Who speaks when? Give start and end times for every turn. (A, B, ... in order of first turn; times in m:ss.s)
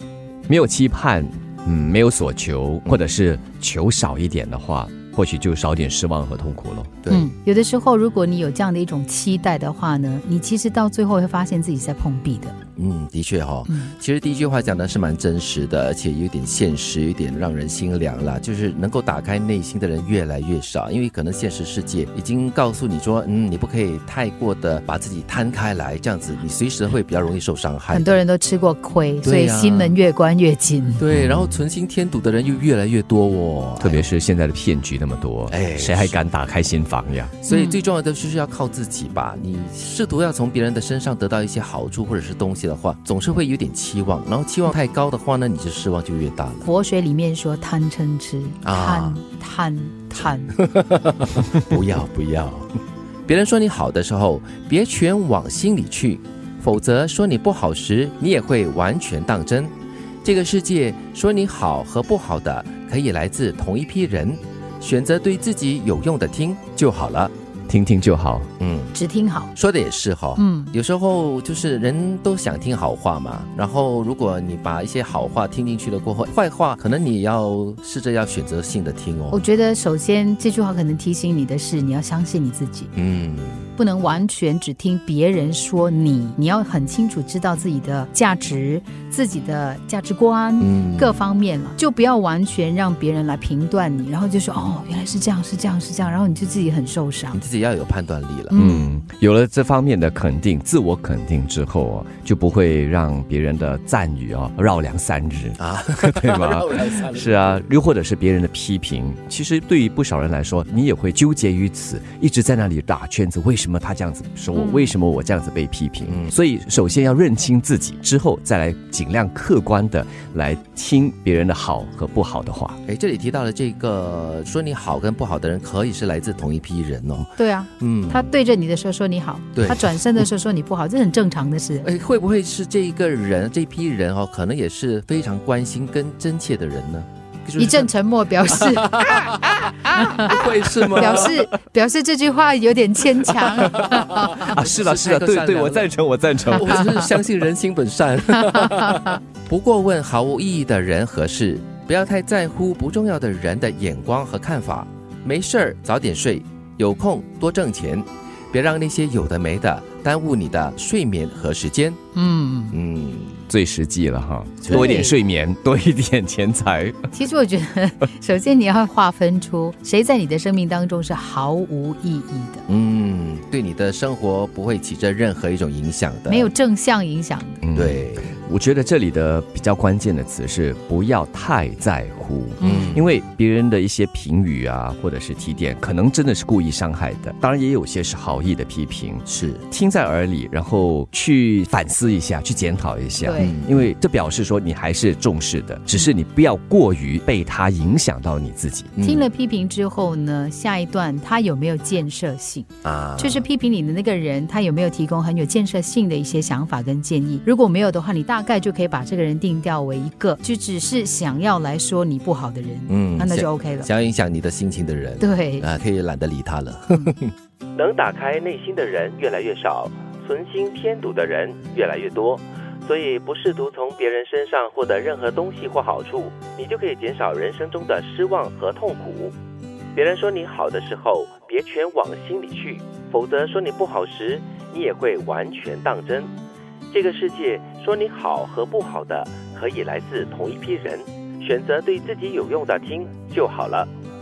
0:00.5-0:06.9 A
0:07.0-0:07.3 B
0:07.1-0:12.6 C
0:12.8-0:28.2 B
0:27.9-0:31.0 C
0:29.2-0:30.0 B
0:31.0-0:34.1 B
0:31.1-0:31.5 A
0:33.8-0:37.3 A
0:35.5-0:36.2 B
0:37.4-0:46.7 B
0:37.5-0:37.8 C
0:46.6-0:50.6 C
0:48.6-0:49.2 B
0:50.6-0:52.7 B
0:53.3-1:07.3 B
1:07.7-1:08.5 A
1:08.6-1:08.9 B
1:08.9-1:09.5 C
1:09.5-1:19.5 B
1:10.4-1:10.7 C
1:19.3-1:22.9 C
1:22.9-1:23.7 B
1:23.8-1:37.4 C
1:30.6-1:31.2 B
1:37.3-1:38.5 B
1:38.5-1:38.9 C
1:38.5-2:02.8 A
1:45.6-1:47.1 B
1:54.5-1:54.9 C
1:56.0-1:56.3 B
2:02.8-2:08.2 B
2:07.4-2:11.9 C
2:09.5-2:10.2 B
2:11.8-2:17.9 B
2:17.6-2:19.3 C
2:18.5-2:21.5 B
2:19.9-2:20.4 C
2:21.0-2:24.6 C
2:23.3-2:27.1 A
2:23.7-2:25.9 B
2:26.5-2:42.0 B
2:26.5-2:27.1 C
2:28.4-2:29.2 C
2:42.1-2:42.8 C
2:42.7-2:43.4 B
2:43.5-2:47.0 A
2:44.6-2:45.1 B
2:44.7-2:45.1 C
2:47.1-2:52.6 C
2:52.7-2:56.5 B
2:56.3-2:57.6 C
2:57.6-3:18.9 A
2:57.7-2:58.3 B
3:02.6-3:03.0 C
3:02.6-3:03.1 B
3:09.2-3:09.6 B
3:13.2-3:13.6 C
3:13.4-3:13.9 B
3:19.0-3:19.3 B
3:19.0-3:33.9 C
3:22.8-3:23.4 B
3:32.9-3:49.3 B
3:35.2-3:35.6 C
3:49.9-3:56.3 B
3:56.9-4:03.9 B